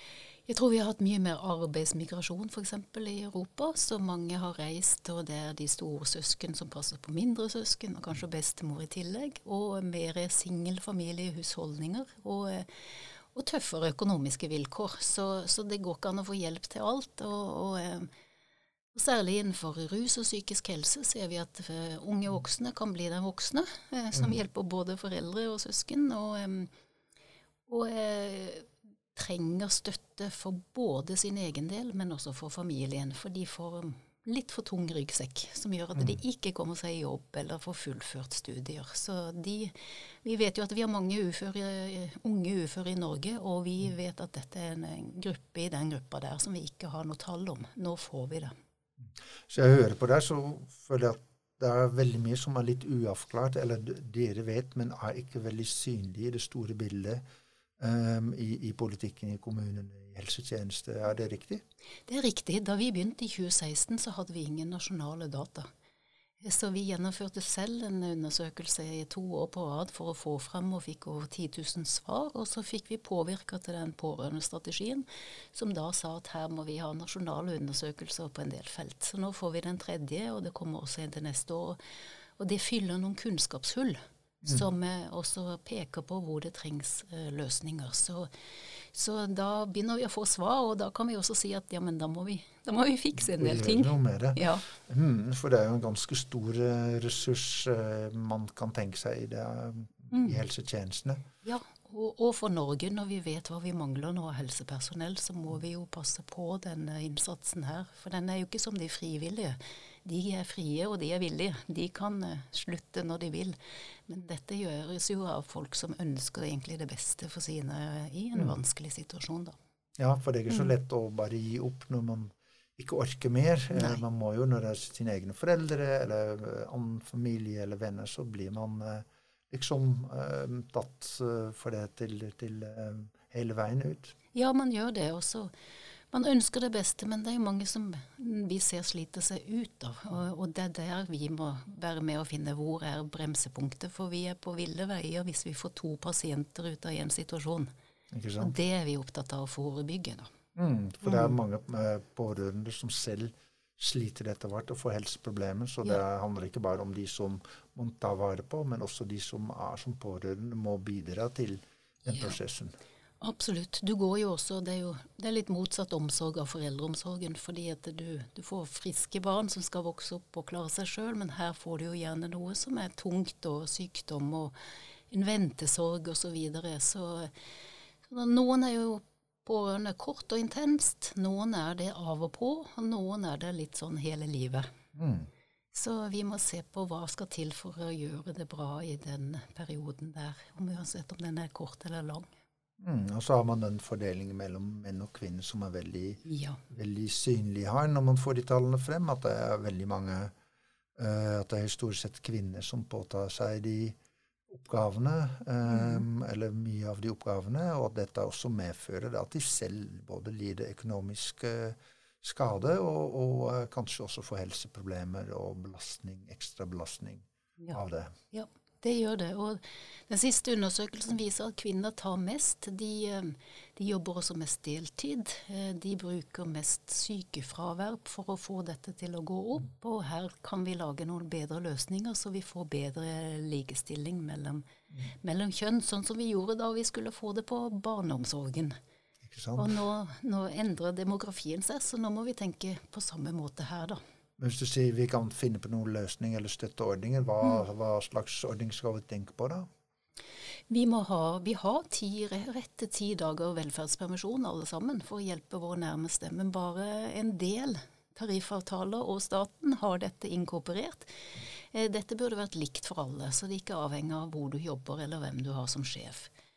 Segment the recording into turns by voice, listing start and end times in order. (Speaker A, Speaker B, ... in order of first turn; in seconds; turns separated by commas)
Speaker A: 0.5-18.1, Speaker A: 18.9-26.7, Speaker A: 27.7-48.5, Speaker B: 49.5-57.2, Speaker B: 57.8-61.6, Speaker A: 62.1-65.7, Speaker A: 66.4-81.8, Speaker A: 82.4-94.6, Speaker B: 93.2-101.2, Speaker A: 100.1-100.4, Speaker A: 101.4-119.6, Speaker B: 120.0-134.1, Speaker A: 123.7-124.0, Speaker A: 134.3-135.5, Speaker A: 136.1-147.7, Speaker B: 148.1-148.5, Speaker A: 148.4-150.3, Speaker B: 150.6-162.7, Speaker A: 162.1-162.3, Speaker A: 163.2-177.5, Speaker A: 178.0-184.7, Speaker B: 184.9-185.3, Speaker A: 185.7-192.3, Speaker B: 192.8-200.3, Speaker A: 196.2-196.6, Speaker B: 201.0-203.9, Speaker B: 204.5-218.2, Speaker A: 205.7-206.0, Speaker A: 218.3-238.8, Speaker B: 239.3-239.7, Speaker A: 239.6-244.0, Speaker B: 244.4-249.7, Speaker A: 250.7-266.3